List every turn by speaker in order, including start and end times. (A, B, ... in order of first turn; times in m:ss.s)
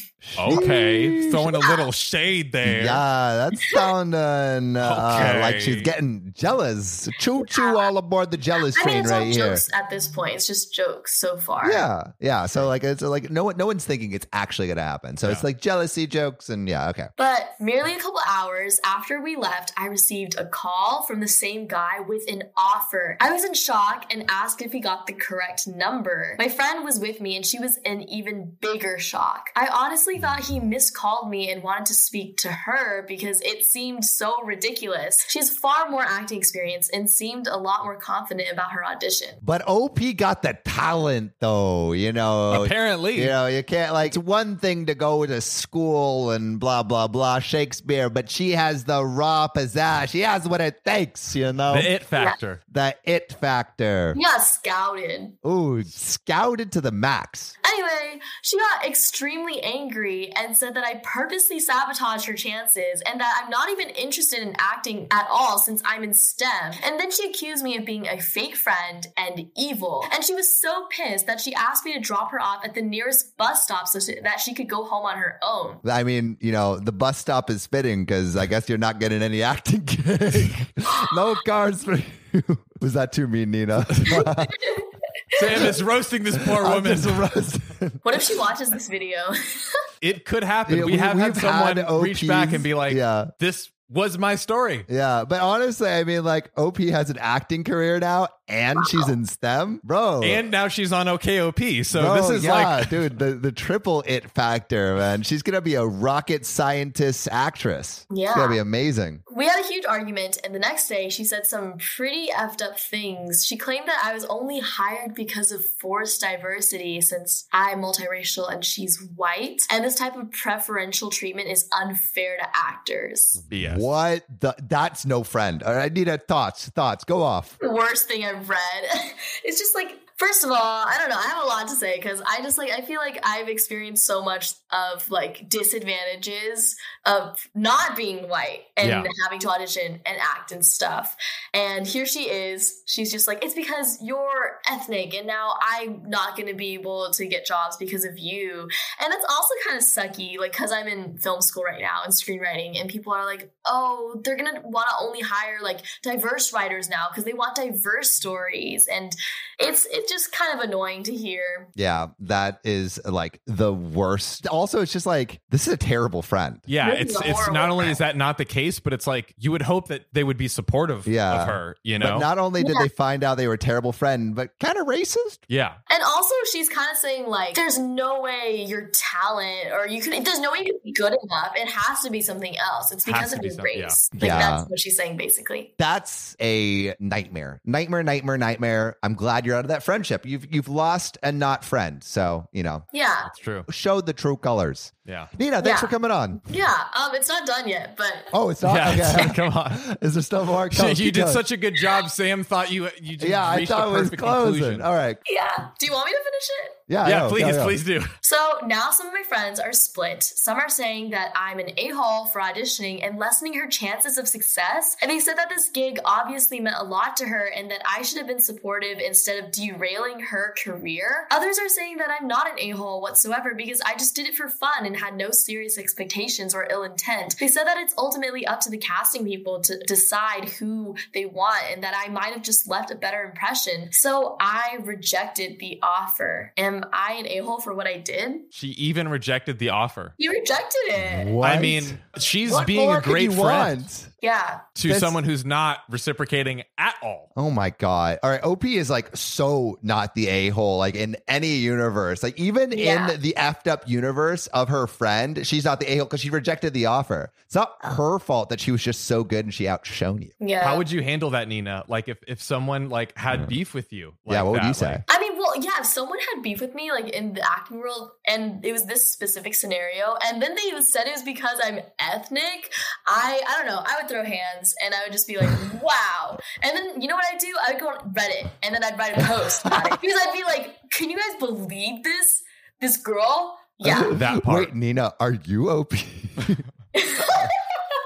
0:00.2-0:01.5 A
0:00.4-0:03.0 B
0:01.5-0:01.9 C
0:02.6-0:09.6 A
0:04.8-0:05.9 B
0:07.5-0:07.9 C
0:08.7-0:11.8 C
0:11.6-0:17.1 A
0:17.2-0:39.4 C
0:39.4-0:51.9 A
0:42.5-0:43.3 B
0:51.7-0:52.6 B
0:52.7-0:54.2 A
0:54.1-0:55.4 C
0:55.4-0:57.5 A
0:57.6-1:15.8 C
1:15.8-1:24.6 A
1:24.4-1:25.4 C
1:25.4-1:27.2 B
1:26.3-1:28.2 A
1:28.0-1:29.9 C
1:30.0-1:34.8 B
1:30.7-1:33.3 A
1:34.9-1:40.4 A
1:38.8-1:39.0 C
1:40.2-1:43.0 B
1:41.9-1:49.2 A
1:48.1-1:48.6 C
1:49.3-2:03.4 C
2:03.5-2:03.9 B
2:03.6-2:07.5 A
2:07.6-2:41.7 C
2:18.8-2:19.1 B
2:41.7-2:46.6 A
2:46.7-2:52.3 B
2:46.8-2:48.0 C
2:51.0-2:55.4 A
2:52.6-2:52.9 C
2:55.5-2:55.8 B
2:55.9-3:05.7 C
3:03.0-3:04.0 B
3:04.1-3:04.7 A
3:05.8-3:12.8 A
3:12.9-3:13.3 C
3:13.3-3:13.7 B
3:13.7-3:16.4 A
3:15.0-3:15.3 B
3:15.6-3:18.3 C
3:18.3-3:21.4 A
3:18.6-3:19.8 B
3:20.7-3:24.8 B
3:23.2-3:25.2 A
3:25.2-3:26.8 C
3:26.9-3:27.8 A
3:27.0-3:28.1 B
3:28.2-3:58.4 C
3:58.5-4:00.1 B
4:00.2-4:01.4 C
4:01.0-4:04.1 A
4:01.4-4:03.8 B
4:04.2-4:04.7 C
4:04.8-4:07.3 B
4:04.8-4:05.2 A
4:07.4-4:20.3 A
4:12.7-4:13.2 C
4:20.4-4:20.8 C
4:20.6-4:25.0 B
4:24.3-4:25.0 A
4:25.1-4:44.2 C
4:43.8-4:46.6 A
4:44.1-4:44.7 B
4:46.9-4:47.5 C
4:47.2-4:47.5 A